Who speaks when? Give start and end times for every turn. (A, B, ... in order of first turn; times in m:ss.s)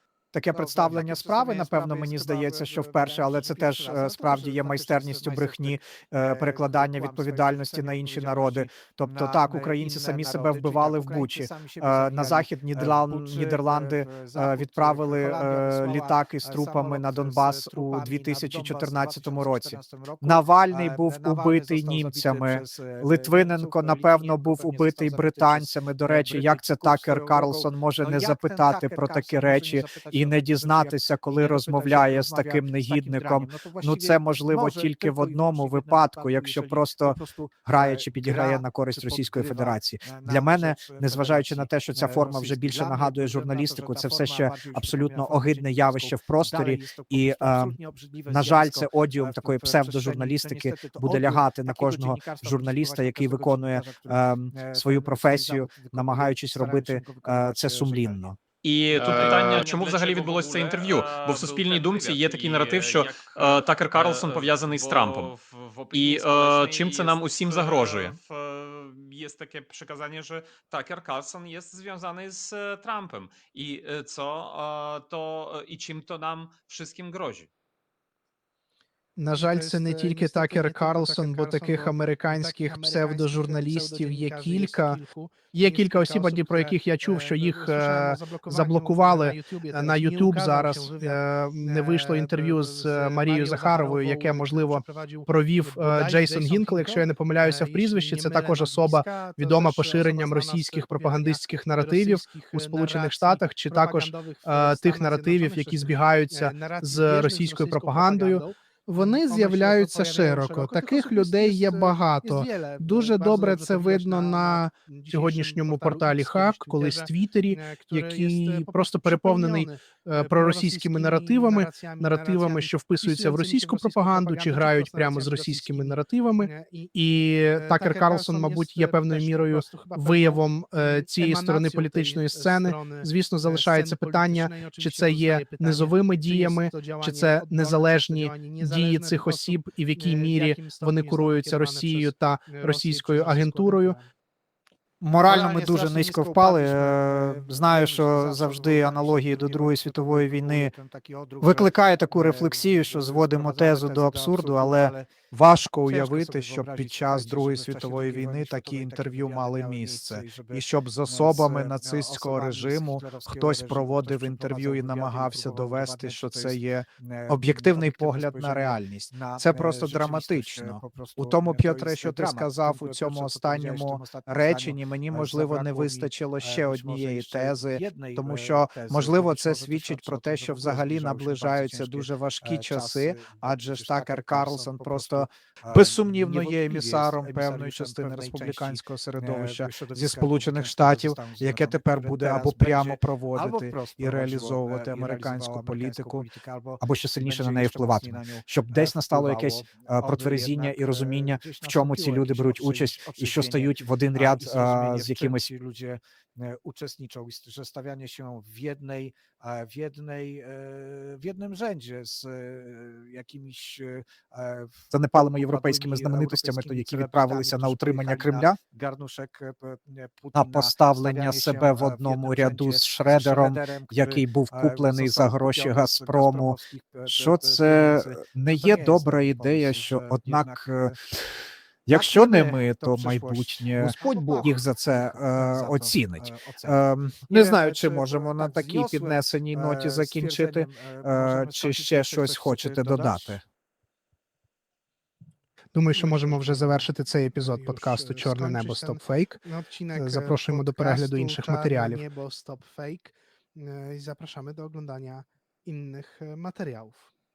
0:00.3-0:47.8 A
0:00.5-0:58.4 B
0:48.3-0:58.4 A
0:58.6-1:05.3 C
0:58.9-1:17.5 D
1:05.9-1:08.2 C
1:19.2-1:25.0 E
1:19.3-2:06.9 F
1:25.5-2:24.0 E
2:07.5-2:24.1 F
2:25.0-2:30.7 A
2:25.2-2:35.2 B
2:31.4-3:16.3 A
2:35.8-3:51.0 B
3:16.8-3:25.5 A
3:34.9-3:38.6 A
3:40.3-3:50.9 A
3:51.9-4:03.4 A
3:51.9-4:03.4 B
4:05.7-4:09.4 E
4:05.9-4:06.8 F
4:07.4-4:17.1 F
4:09.9-4:12.0 E